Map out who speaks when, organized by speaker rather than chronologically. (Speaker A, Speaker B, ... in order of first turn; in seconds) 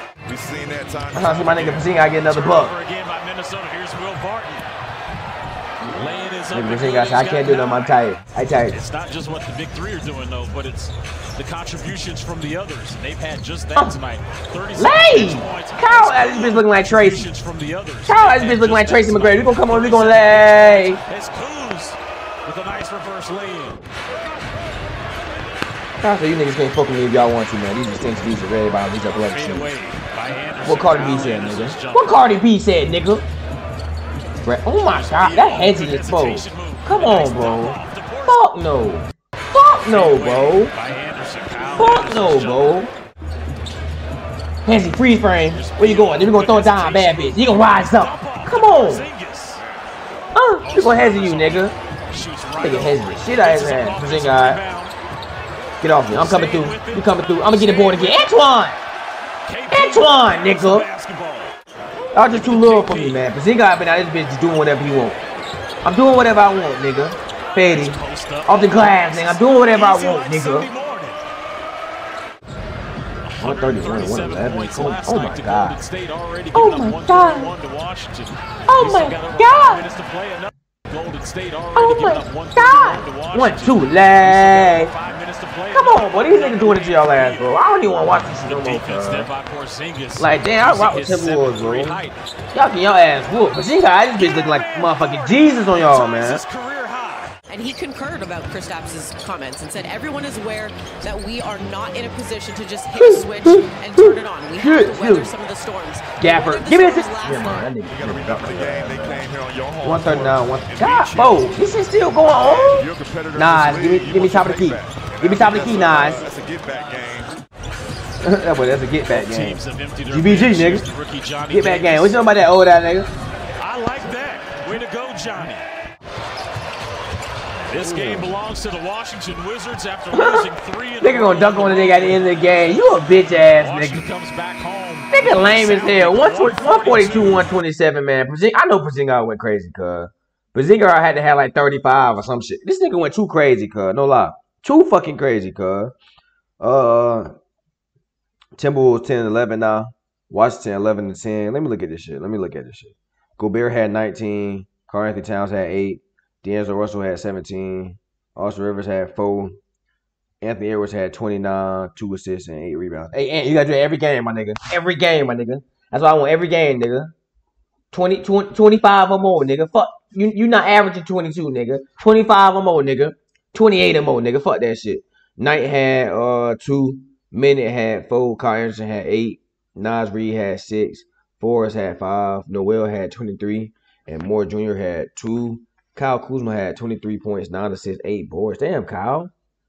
Speaker A: 0.3-1.9, 107.9-111.5, 112.4-117.4
Speaker B: 1.1-2.7, 6.5-8.8, 14.8-17.3, 18.1-21.0, 26.0-29.7, 30.6-33.2, 34.4-40.7, 41.8-42.9, 44.6-49.1, 50.4-51.8, 52.6-54.6, 55.8-58.8, 59.7-60.9, 62.1-65.2, 65.8-70.7, 73.4-75.8, 76.5-77.5, 78.7-79.8, 81.8-84.9, 85.7-89.3, 90.2-92.0, 92.5-96.4, 103.0-105.3, 106.2-109.3, 109.8-116.2, 118.2-120.9, 121.5-123.1, 127.8-128.3, 130.1-130.5, 131.0-134.1, 135.1-145.9, 146.6-147.3, 148.6-159.6, 160.4-167.1, 167.9-189.3
Speaker C: 2.2-4.7, 5.8-8.0, 8.7-23.8, 29.2-32.3, 34.9-38.4, 39.8-42.7, 45.5-49.6, 50.6-54.9, 56.1-58.3, 59.5-61.6, 62.3-63.3, 67.7-71.2, 73.3-87.5, 88.3-92.2, 94.2-97.4, 119.1-122.2, 123.6-125.7, 127.6-137.5
Speaker D: 97.5-107.7